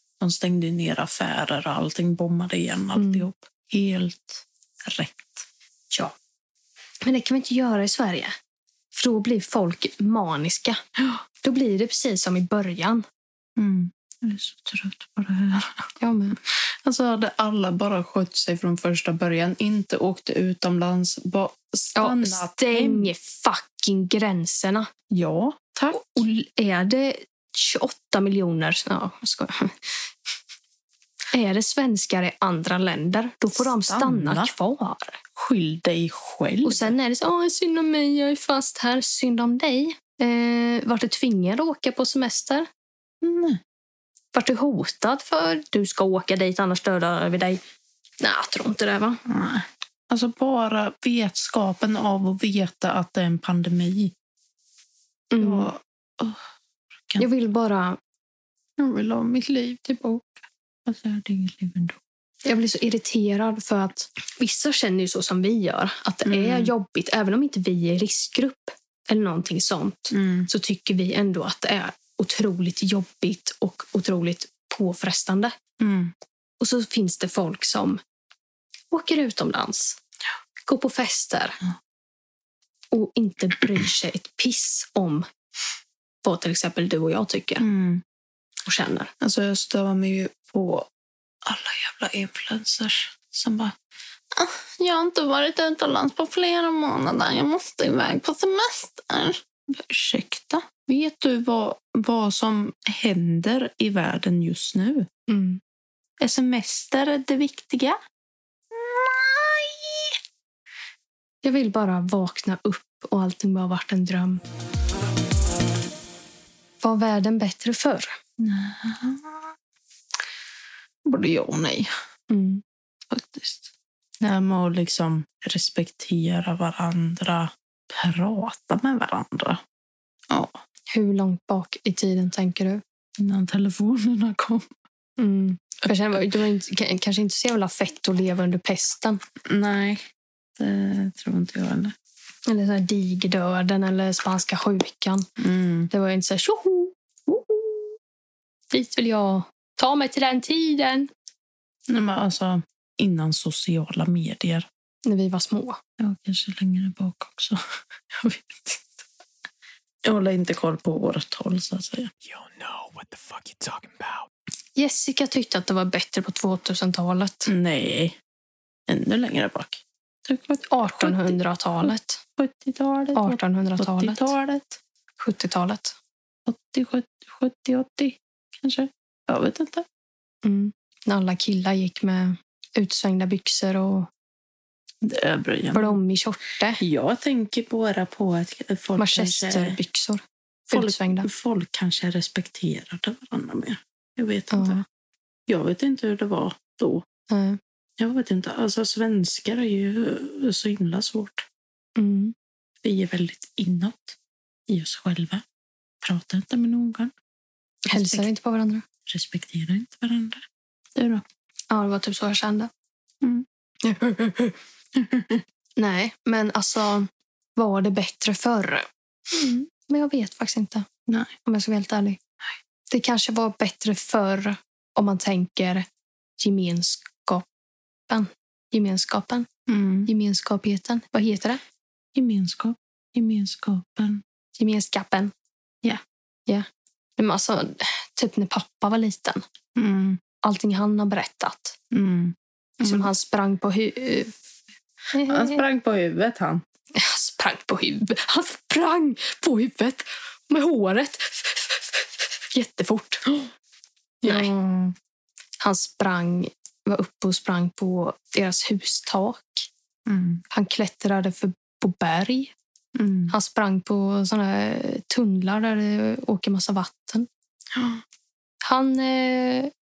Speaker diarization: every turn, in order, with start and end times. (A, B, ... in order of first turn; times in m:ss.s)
0:00.2-0:05.4 A
0:02.9-0:03.2 B
0:07.0-0:08.3 B
0:08.9-0:10.8 B
0:11.4-0:13.0 B
0:13.6-0:23.1 A
0:16.0-0:16.4 B
0:21.9-0:24.9 B
0:25.1-0:26.2 A
0:25.9-0:30.0 B
0:31.3-0:35.2 B
0:33.5-0:34.5 A
0:35.4-0:37.0 A
0:36.6-0:42.7 B
0:43.2-0:43.6 A
0:44.3-0:47.6 B
0:48.2-0:49.2 B
0:49.2-0:54.1 A
0:55.3-0:55.7 B
0:55.4-0:56.5 A
0:57.2-0:58.0 B
0:58.8-1:02.0 A
1:02.4-1:15.5 B
1:06.2-1:06.7 A
1:10.1-1:10.5 A
1:15.8-1:16.1 A
1:16.6-1:18.0 B
1:18.9-1:20.0 B
1:20.7-1:21.6 B
1:22.9-1:25.2 B
1:26.2-1:27.6 B
1:27.6-1:28.0 A
1:28.6-1:29.1 B
1:29.2-1:30.9 A
1:31.4-1:33.7 A
1:34.3-1:45.1 A
1:45.3-1:45.6 B
1:46.2-1:48.0 A
1:48.7-1:50.2 A
1:51.4-1:54.4 B
1:56.8-1:58.1 B
1:58.4-1:59.5 A
2:01.0-2:01.9 A
2:02.3-2:02.6 B
2:03.1-2:03.7 A
2:04.2-2:09.6 A
2:10.3-2:10.6 A
2:10.9-2:12.8 B
2:13.2-2:14.7 A
2:15.2-2:19.2 B
2:19.4-2:20.1 A
2:20.6-2:21.9 A
2:22.5-2:25.3 B
2:25.4-2:25.9 A
2:25.9-2:26.9 B
2:27.3-2:27.9 A
2:28.7-2:31.1 B
2:31.9-2:34.7 A
2:35.0-2:35.8 B
2:36.0-2:38.9 A
2:40.0-2:42.1 A
2:42.2-2:44.3 C
2:44.8-2:47.5 B
2:47.4-2:48.2 A
2:48.9-2:54.8 A
2:50.7-2:52.2 B
2:53.1-2:54.3 B
2:55.2-2:56.0 B
2:56.4-2:59.8 A
3:00.4-3:04.1 B
3:05.0-3:06.0 A
3:05.7-3:06.8 B
3:06.8-3:09.8 A
3:09.0-3:11.3 B
3:10.7-3:14.8 A
3:14.5-3:14.8 B
3:15.5-3:17.0 A
3:17.3-3:17.6 B
3:18.0-3:21.4 A
3:22.0-3:22.3 B
3:22.8-3:24.2 A
3:24.7-3:25.4 A
3:26.0-3:27.1 A
3:27.9-3:28.8 B
3:27.9-3:28.3 A
3:29.1-3:30.4 A
3:30.9-3:31.2 A
3:31.7-3:32.7 B
3:33.8-3:34.6 B
3:34.9-3:35.4 A
3:35.8-3:40.9 B
3:41.1-3:41.3 A
3:41.4-3:42.2 B
3:42.9-3:45.8 B
3:46.4-3:47.4 B
3:48.1-3:49.5 B
3:49.7-3:50.1 A
3:50.0-3:51.6 B
3:52.1-3:54.2 A
3:54.6-3:55.3 B
3:56.5-3:59.4 B
3:59.7-4:00.2 A
4:00.4-4:01.8 B
4:01.9-4:03.1 A
4:02.8-4:04.3 B
4:05.1-4:05.6 B
4:05.2-4:06.6 A
4:06.9-4:13.3 B
4:14.2-4:14.9 A
4:14.2-4:14.5 B
4:15.6-4:19.7 B
4:20.0-4:20.4 A
4:20.5-4:22.5 B
4:22.9-4:23.3 A
4:23.3-4:27.3 B
4:27.7-4:28.0 A
4:28.6-4:29.7 B